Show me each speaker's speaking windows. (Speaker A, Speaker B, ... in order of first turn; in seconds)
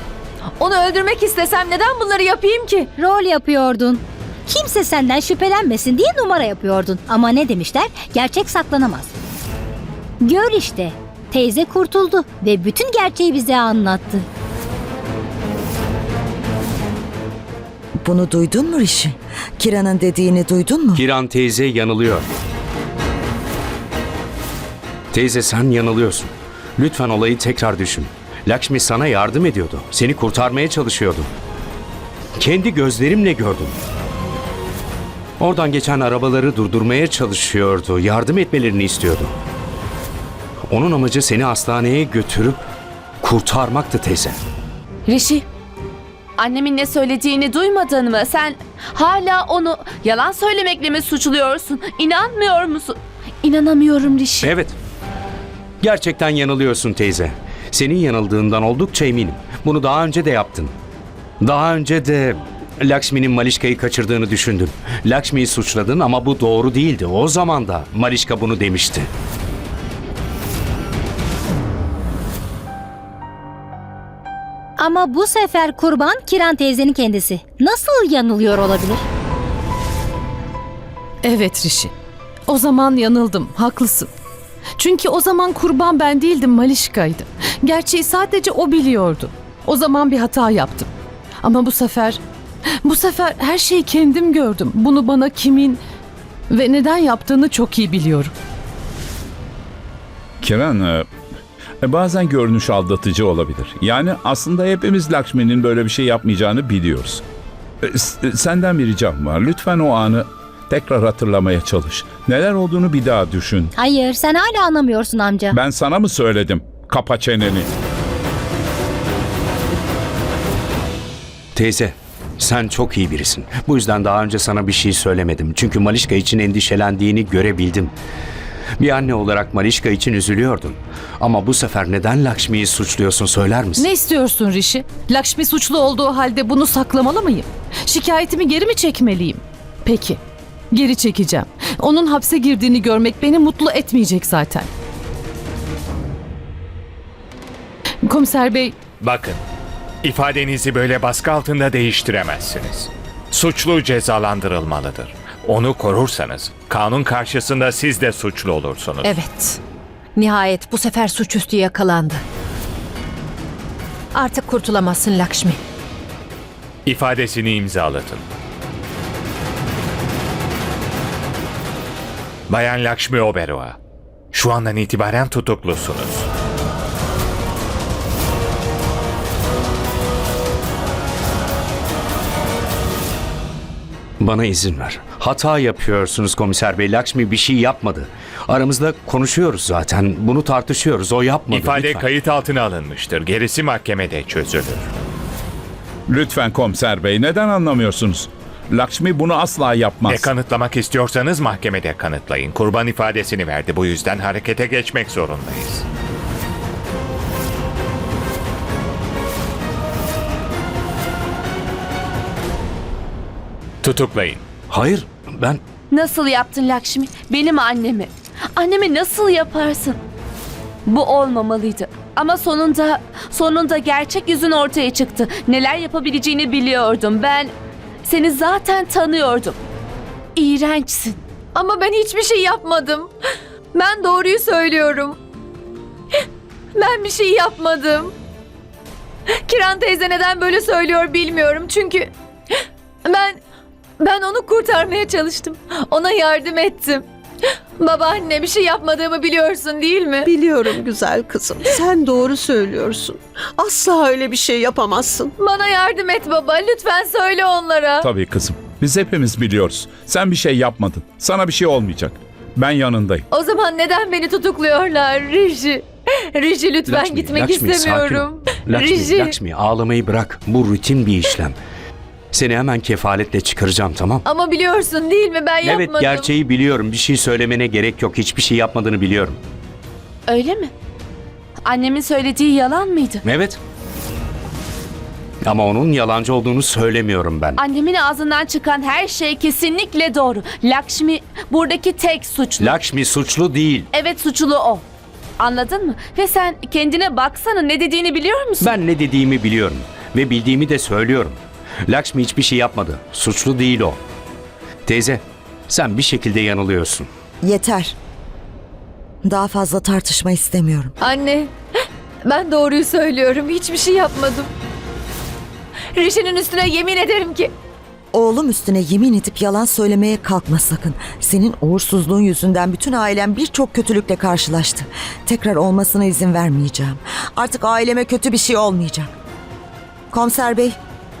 Speaker A: 0.6-2.9, 231.5-233.1, 233.7-235.2, 236.7-238.1, 239.4-242.1, 243.0-243.4, 244.0-247.0, 247.8-250.3, 255.4-258.1, 263.3-269.4, 274.2-276.3, 311.0-311.5, 312.2-314.5, 315.9-317.5
Speaker B: 3.0-9.1, 10.2-14.2, 74.8-79.0, 113.7-115.6
Speaker C: 18.0-21.0, 307.4-307.9, 309.2-310.9, 318.1-329.1, 330.1-330.8
Speaker D: 20.9-22.3, 25.1-31.3, 32.4-33.8, 35.4-39.3, 40.7-42.6, 43.2-44.4, 54.4-54.8, 55.8-60.7, 61.4-69.1, 121.5-127.9, 128.8-133.8, 184.2-192.1, 214.7-215.6, 266.9-271.6, 272.3-274.2, 275.6-279.4, 283.2-283.6, 285.4-287.6, 292.6-293.9, 298.6-304.0, 304.9-307.1
Speaker E: 45.1-45.4, 46.4-54.5, 215.9-220.0, 220.8-227.5, 228.0-229.6, 230.3-231.2, 280.3-280.7, 281.6-283.2, 287.6-292.8, 293.9-294.8, 295.4-298.8
Speaker F: 81.2-81.9, 82.5-84.1, 84.8-90.9, 91.4-92.2, 92.8-95.8, 96.5-98.3, 133.7-140.2, 140.7-144.7, 148.1-148.8
Speaker G: 100.4-101.1, 101.8-107.2, 107.8-113.7, 115.5-117.7, 196.1-200.3, 258.0-263.2
Speaker H: 149.0-149.4, 150.0-159.2, 166.8-168.2, 172.5-173.8, 174.3-176.3, 191.5-194.9, 200.0-205.8, 213.8-214.4
Speaker I: 159.0-159.6, 160.2-162.2, 164.1-165.6
Speaker J: 250.2-255.3